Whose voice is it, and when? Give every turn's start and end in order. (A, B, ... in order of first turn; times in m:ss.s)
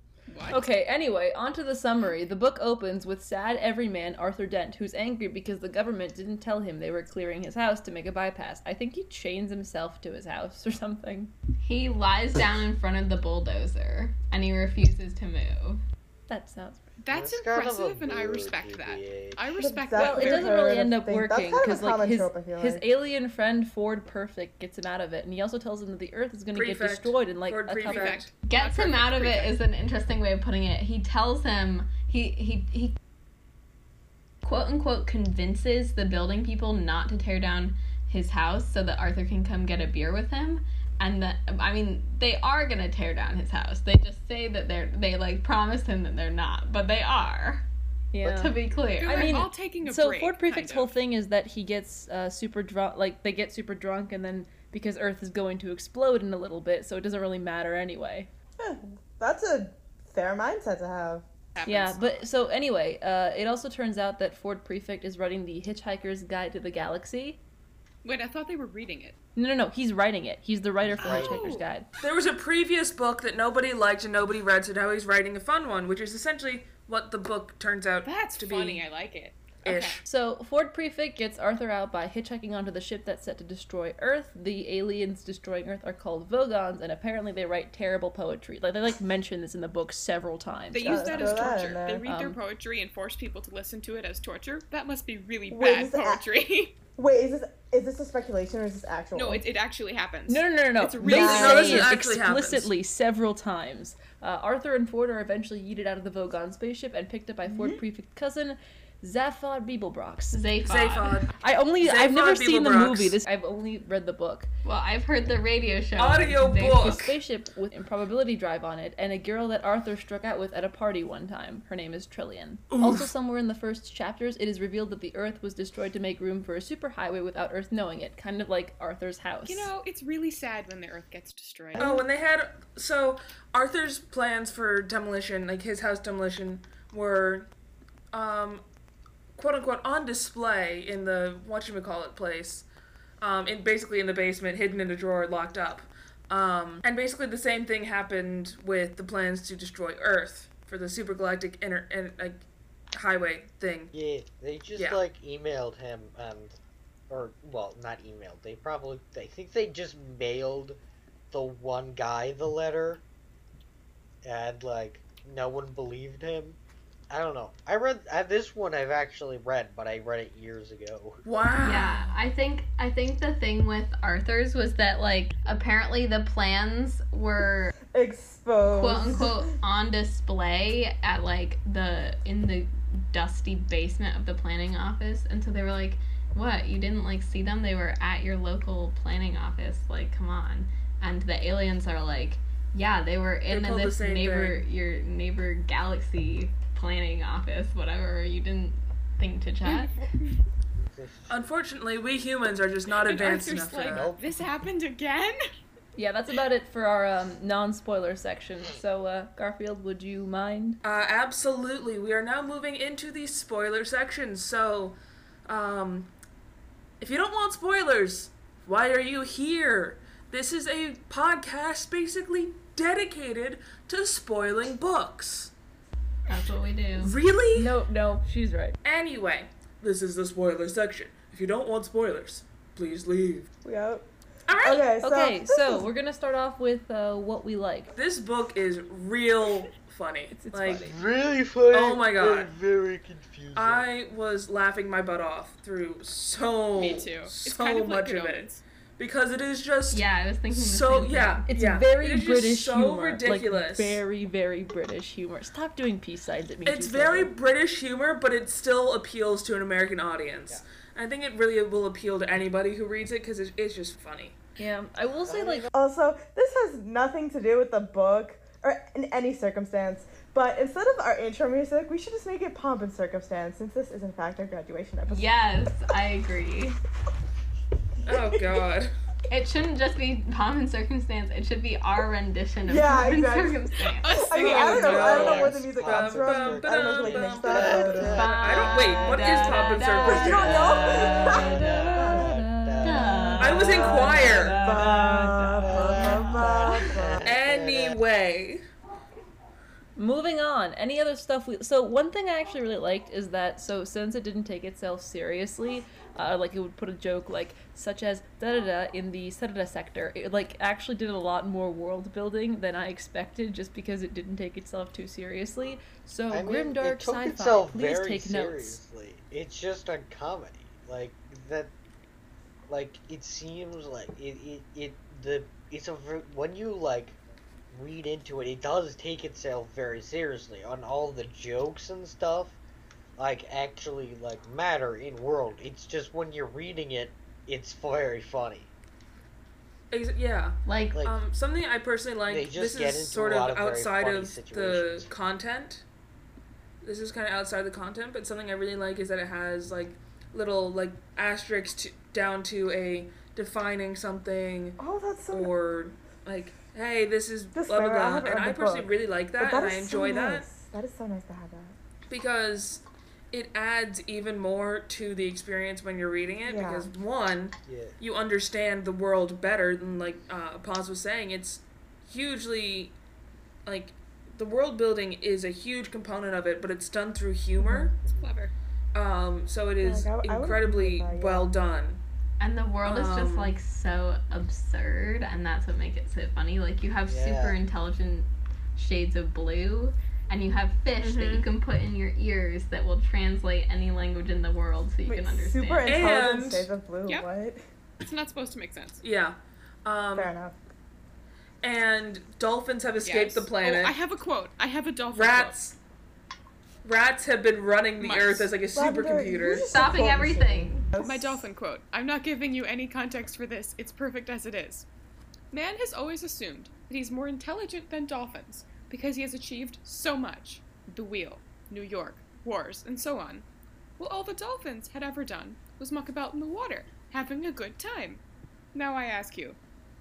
0:00.3-0:00.7 A
0:00.5-0:11.3 B
0:11.6-0:15.8 C
0:16.3-0:16.9 B
0:17.0-0:20.6 A
0:17.1-0:19.5 D
0:19.6-0:22.8 E
0:20.0-0:28.2 B
0:26.5-0:28.3 F
0:27.8-0:29.6 A
0:28.4-0:33.0 C
0:34.4-0:47.6 C
0:48.1-0:58.3 B
0:48.2-0:49.5 C
0:49.0-0:51.0 A
0:58.6-1:01.2 E
1:01.5-1:02.2 A
1:01.6-1:07.4 B
1:08.0-1:09.2 A
1:09.4-1:11.9 B
1:10.8-1:11.4 D
1:11.0-1:11.7 A
1:12.0-1:18.8 F
1:18.0-1:20.0 A
1:19.6-1:20.0 F
1:20.0-1:32.4 B
1:30.7-1:36.8 A
1:30.8-1:32.0 E
1:35.5-1:36.3 E
1:36.9-1:39.4 E
1:39.1-1:42.0 A
1:40.3-1:50.4 B
1:41.0-1:42.7 F
1:47.5-1:47.8 E
1:50.3-1:51.2 C
1:50.6-1:53.2 F
1:51.4-1:54.5 B
1:54.6-1:57.0 C
1:56.0-1:57.2 F
1:56.5-2:09.7 B
2:02.7-2:03.1 F
2:09.4-2:11.9 A
2:11.8-2:17.5 F
2:11.8-2:12.0 E
2:18.1-2:18.6 F
2:19.3-2:22.7 F
2:23.2-2:33.9 F
2:33.9-2:36.6 D
2:37.1-2:40.8 D
2:41.3-2:43.0 D
2:44.2-2:46.6 D
2:47.1-2:51.2 D
2:51.2-2:52.1 F
2:51.6-2:57.7 C
2:57.9-2:59.4 E
2:58.7-3:20.1 C
3:13.5-3:14.6 F
3:19.7-3:20.3 A
3:20.7-3:21.4 D
3:21.3-3:24.1 F
3:22.9-3:25.3 A
3:23.9-3:24.4 D
3:26.0-3:30.8 B
3:30.8-3:36.1 F
3:37.0-3:45.5 F
3:46.3-3:47.1 C
3:47.0-3:47.7 F
3:47.5-3:48.8 B
3:48.8-3:53.5 F
3:53.6-3:54.0 E
3:54.5-3:54.9 F
3:54.6-3:55.9 E
3:55.0-3:57.9 B
3:57.9-4:00.9 F
4:00.3-4:01.0 B
4:00.8-4:03.8 D
4:01.7-4:02.5 F
4:03.5-4:14.0 F
4:06.7-4:08.6 A
4:09.9-4:11.5 C
4:11.5-4:17.3 B
4:16.6-4:24.4 F
4:24.6-4:25.7 B
4:25.2-4:25.7 D
4:25.7-4:35.3 E
4:35.1-4:36.8 C
4:38.0-4:38.5 E
4:38.0-4:38.9 F
4:39.3-4:44.2 C
4:42.6-4:43.7 E
4:43.9-4:45.4 A
4:44.2-4:48.5 E
4:44.4-4:50.7 F
4:45.0-4:48.4 D
4:48.0-4:51.5 C
4:50.0-4:52.3 E
4:50.4-4:53.4 D
4:50.9-4:56.2 B
4:52.8-4:56.7 C
4:53.4-4:54.6 F
4:53.7-4:57.3 E
4:55.6-4:58.0 D
4:57.2-4:58.6 F
5:00.0-5:18.8 B
5:16.3-5:21.7 D
5:22.7-5:27.2 D
5:27.7-5:32.6 D
5:33.2-5:38.7 D
5:39.9-5:45.8 F
5:40.6-5:41.0 C
5:40.9-5:41.2 D
5:42.3-5:45.1 D
5:46.8-5:54.8 F
5:54.8-5:55.5 E
5:55.3-6:00.5 F
5:57.5-6:01.8 E
6:02.1-6:12.9 F
6:06.4-6:06.9 E
6:07.6-6:08.0 D
6:13.6-6:18.0 F
6:17.6-6:17.9 E
6:18.1-6:18.5 A
6:18.9-6:22.0 F
6:19.8-6:21.5 E
6:22.4-6:36.1 C
6:22.8-6:23.6 F
6:27.1-6:27.6 D
6:31.0-6:31.4 F
6:35.0-6:37.6 E
6:35.8-6:36.7 F
6:38.0-6:39.0 A
6:39.0-6:40.3 F
6:40.1-6:40.5 E
6:41.6-6:44.0 F
6:43.0-6:45.6 A
6:45.1-6:45.8 F
6:46.8-6:49.9 F
6:48.0-6:48.6 A
6:48.7-6:51.5 E
6:49.7-6:50.9 C
6:51.0-6:54.8 A
6:55.5-7:03.4 A
7:04.0-7:08.2 A
7:08.7-7:09.6 A